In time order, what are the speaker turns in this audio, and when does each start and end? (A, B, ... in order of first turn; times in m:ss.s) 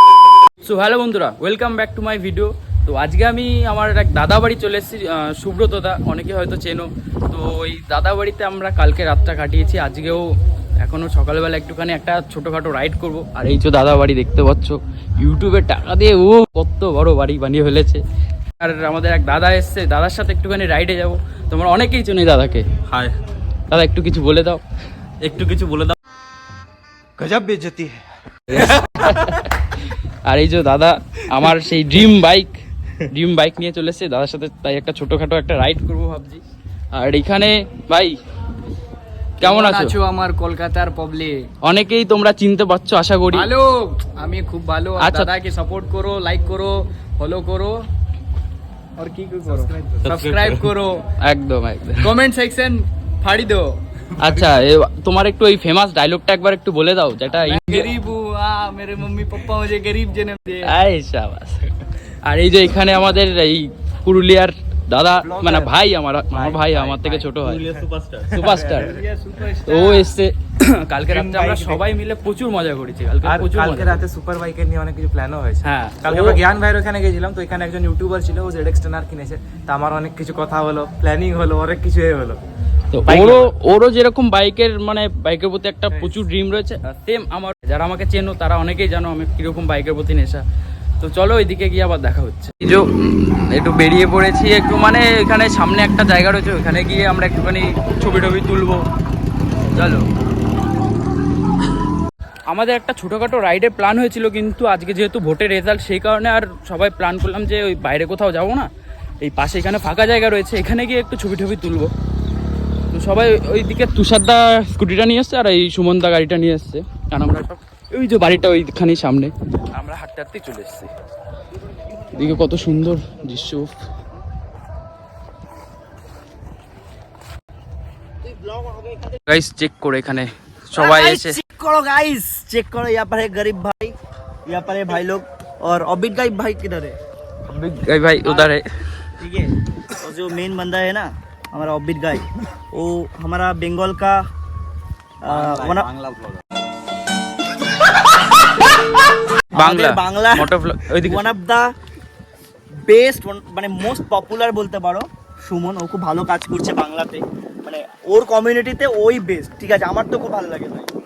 0:00.6-0:10.3 A
0:10.8-0:18.0 A
0:18.6-0:22.6 A
0:22.9-0:23.1 B
0:23.7-0:24.6 A
0:25.2-0:25.9 B
0:27.2-0:27.6 B
0:28.5-0:29.5 A
0:30.2-0:36.4 A
0:36.9-0:38.2 A
0:39.4-0:40.0 A
0:39.4-0:41.5 C
0:41.6-0:43.5 A
0:43.3-0:47.8 C
0:45.0-0:45.3 A
0:49.0-0:51.0 C
0:50.0-0:50.7 B
0:51.2-0:52.1 A
0:52.0-0:53.8 C
0:54.2-0:57.9 A
0:57.3-1:00.8 C
1:00.6-1:07.6 A
1:06.3-1:09.0 B
1:08.3-1:09.0 A
1:09.0-1:10.1 C
1:09.6-1:14.0 A
1:15.6-1:16.4 A
1:16.1-1:16.4 B
1:16.6-1:16.9 D
1:17.8-1:18.9 D
1:19.7-1:22.0 D
1:22.9-1:30.4 A
1:31.0-1:38.8 A
1:39.7-1:40.0 A
1:42.5-1:48.7 A
1:49.2-1:51.9 A
1:52.9-2:00.9 A
2:02.1-2:03.7 A
2:08.2-2:09.1 E
2:09.3-2:11.4 A
2:10.8-2:13.9 E
2:14.5-2:17.0 E
2:17.5-2:18.6 A
2:19.2-2:24.2 E
2:25.2-2:25.9 E
2:25.2-2:26.4 B
2:29.5-2:30.5 E
2:29.5-2:31.3 A
2:31.0-2:31.7 E
2:32.8-2:40.9 E